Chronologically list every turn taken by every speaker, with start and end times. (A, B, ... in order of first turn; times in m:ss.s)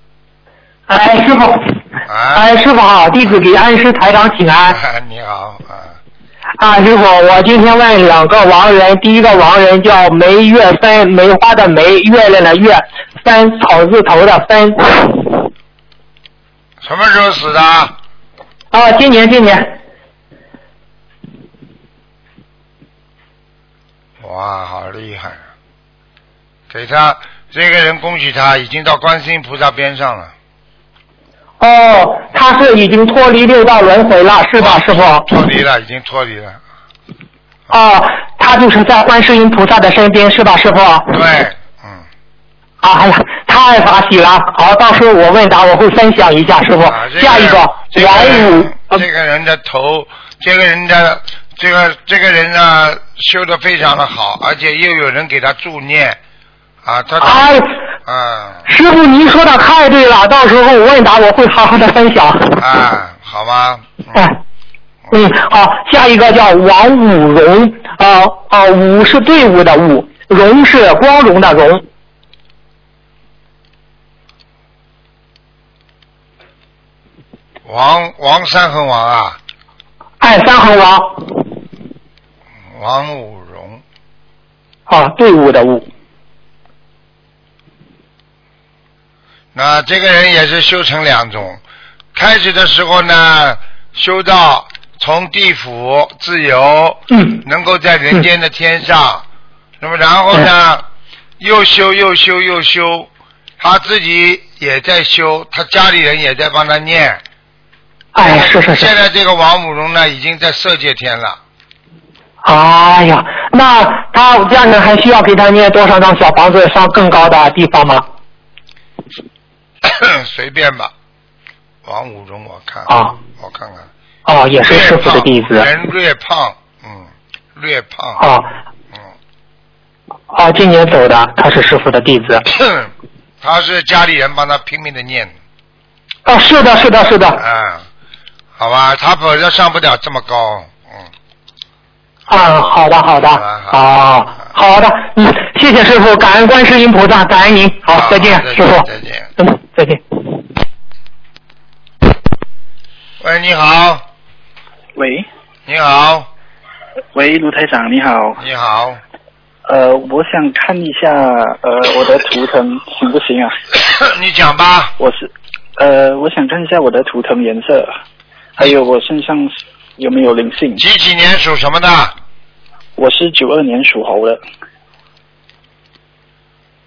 0:00.9-0:01.8 A
0:02.1-0:02.5 B
0:02.3-0:04.8 A
0:04.6-0:06.0 B
0:06.6-0:15.5 A
0:16.8-0:17.9 B
0:18.7-0:19.7 A
0:24.2-0:25.4 B
0:26.7-0:30.3 B
0:31.6-0:35.3 A
0:34.6-0:36.6 B
0:37.7-0:41.2 A
0:41.1-0:42.0 B
0:42.8-0:49.0 A
0:46.8-0:56.2 B
0:56.8-0:58.7 B
0:57.2-0:57.8 A
0:58.7-1:02.6 A
1:02.6-1:04.3 B
1:05.1-1:11.8 A
1:17.6-1:19.4 B
1:20.2-1:21.4 A
1:22.7-1:23.8 B
1:24.9-1:25.8 A
1:29.5-1:31.6 B
1:32.1-1:39.2 B
1:37.1-1:37.4 A
1:39.8-1:40.8 B
1:41.4-1:47.2 B
1:48.1-1:48.9 A
1:48.2-1:51.4 B
1:52.4-1:58.0 A
1:59.8-2:00.9 B
2:01.8-2:03.9 B
2:02.9-2:03.2 A
2:04.2-2:05.7 A
2:04.6-2:08.2 B
2:08.2-2:08.5 A
2:10.3-2:12.4 A
2:12.5-2:12.9 B
2:13.4-2:15.3 B
2:16.2-2:17.4 A
2:17.4-2:17.8 B
2:18.6-2:21.1 B
2:22.3-2:28.9 A
2:23.3-2:23.8 B
2:27.9-2:29.3 B
2:29.4-2:30.4 A
2:33.2-2:34.0 B
2:35.0-2:35.2 C
2:35.6-2:36.3 B
2:37.1-2:38.4 C
2:38.4-2:39.0 B
2:39.7-2:43.6 C
2:43.8-2:44.9 B
2:45.0-2:47.9 C
2:48.6-2:50.8 C
2:50.8-2:52.1 B
2:53.0-2:54.4 C